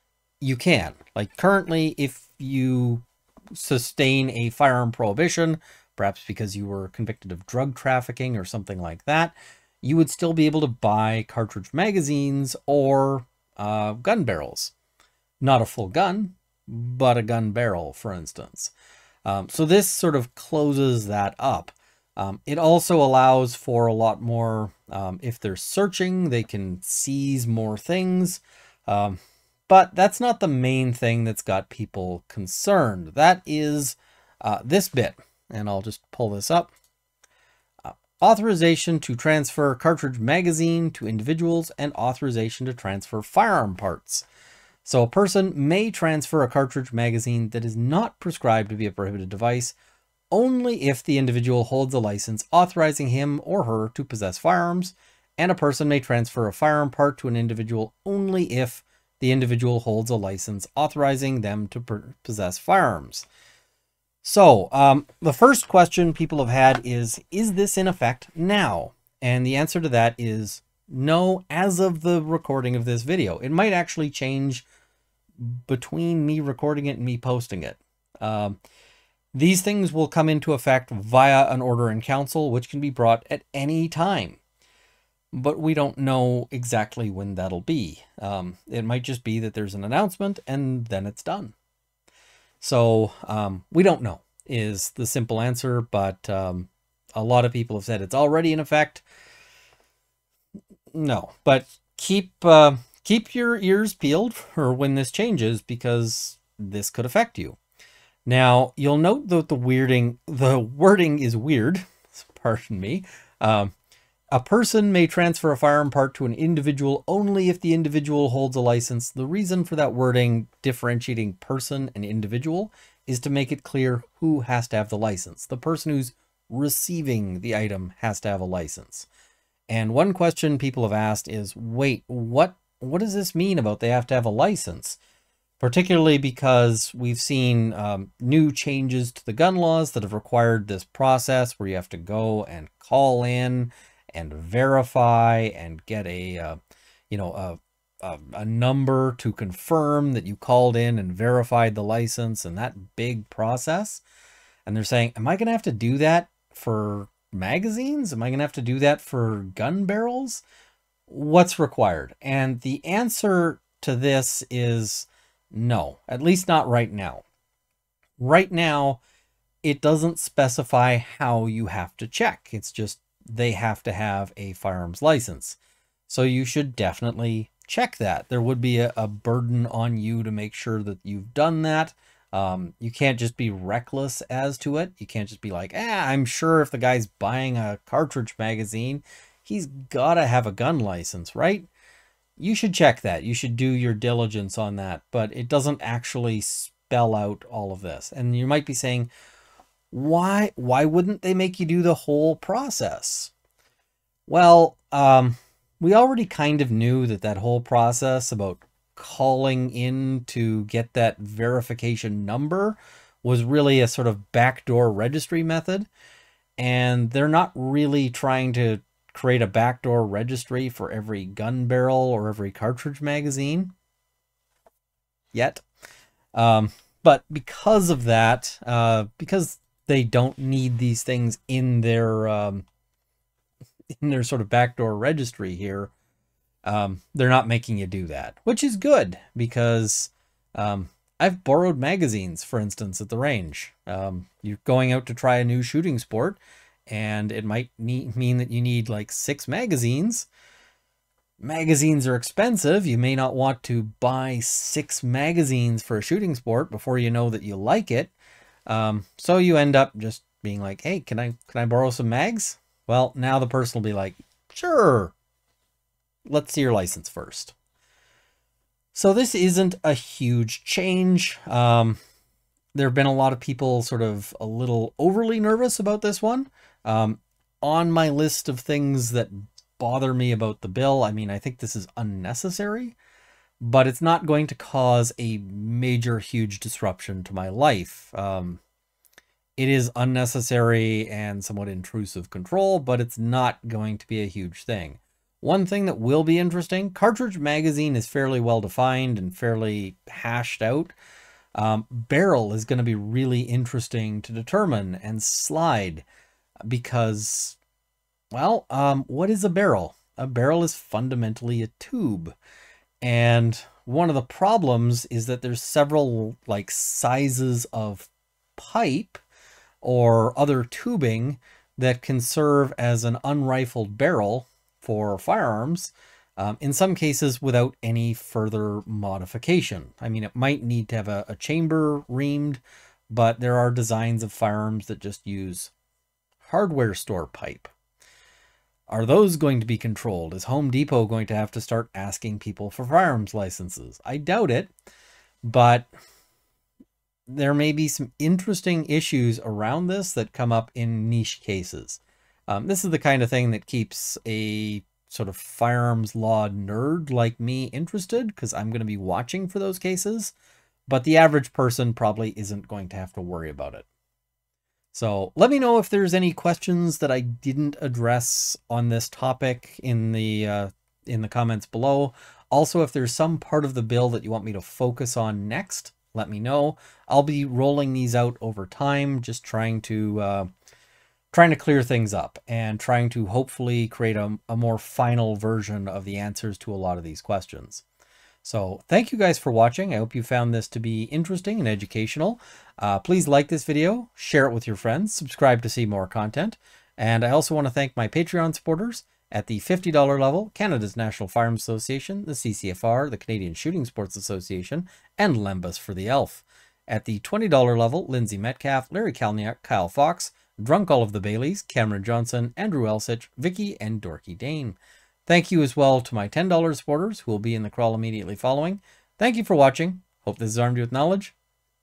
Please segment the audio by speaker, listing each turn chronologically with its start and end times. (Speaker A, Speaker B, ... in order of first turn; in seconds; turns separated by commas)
Speaker A: 0.4-14.7, Speaker A: 15.4-18.7, Speaker A: 19.2-36.7, Speaker A: 37.8-44.2, Speaker A: 44.8-49.8, Speaker A: 50.3-63.2, Speaker A: 64.2-74.7, Speaker A: 75.4-78.6, Speaker A: 79.3-84.4, Speaker A: 85.3-91.5, Speaker A: 92.6-99.0, Speaker A: 100.9-107.6, Speaker A: 108.2-113.7, Speaker A: 114.3-129.1, Speaker A: 129.7-135.0, Speaker A: 135.6-146.6, Speaker A: 147.1-154.0, Speaker A: 154.7-160.4, Speaker A: 161.1-167.2, Speaker A: 168.2-169.0, Speaker A: 169.6-191.7, Speaker A: 192.4-199.1, Speaker A: 199.9-203.3, Speaker A: 204.3-215.9, Speaker A: 216.6-223.7, Speaker A: 225.3-225.6, Speaker A: 226.3-232.7, Speaker A: 234.0-235.9, Speaker A: 236.6-250.3, Speaker A: 251.4-258.1, Speaker A: 258.7-265.1, Speaker A: 266.2-267.5, Speaker A: 268.9-272.0, Speaker A: 272.7-283.0, Speaker A: 283.6-288.6, Speaker A: 289.6-300.9, Speaker A: 301.6-306.0, Speaker A: 306.7-307.6, Speaker A: 308.3-312.4, Speaker A: 313.0-319.2, Speaker A: 319.8-335.7, Speaker A: 336.4-337.7, Speaker A: 338.9-344.7, Speaker A: 345.4-345.9, Speaker A: 347.3-360.3, Speaker A: 360.9-363.9, Speaker A: 364.9-380.5, Speaker A: 381.3-387.8, Speaker A: 388.4-421.4